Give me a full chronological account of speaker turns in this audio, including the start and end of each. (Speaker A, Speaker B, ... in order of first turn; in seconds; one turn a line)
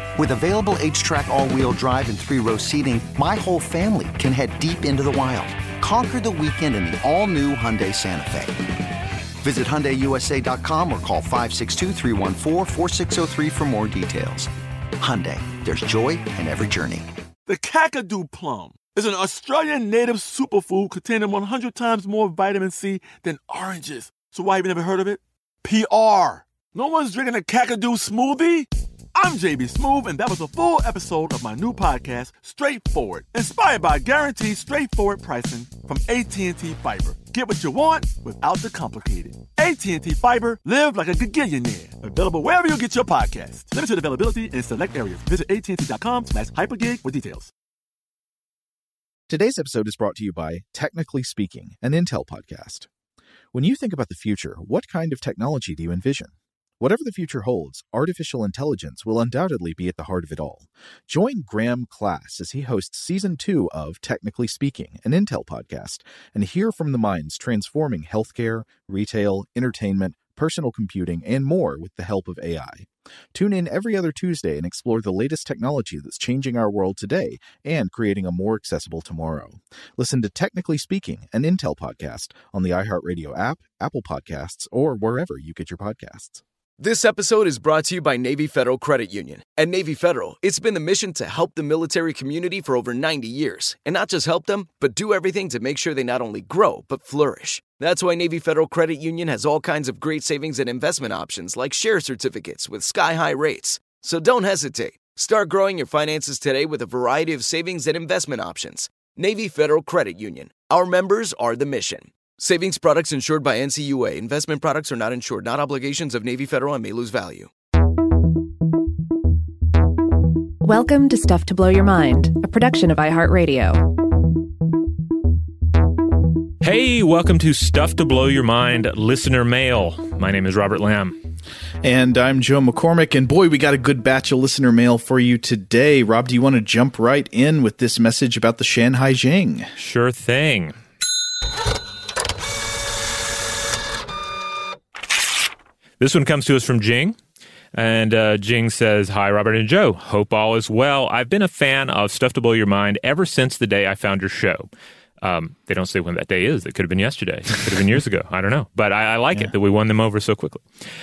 Speaker A: 0.2-8.7
Speaker A: 9.4-17.1
Speaker B: 17.5-47.5
Speaker C: 49.3-52.9
Speaker C: 53.5-86.4
Speaker D: 86.8-117.5
Speaker E: 120.6-123.9
Speaker F: 126.6-131.2
Speaker C: 131.8-139.7
Speaker F: 139.8-140.8
Speaker F: 146.0-147.2
Speaker F: 147.7-154.7
Speaker F: 155.2-160.7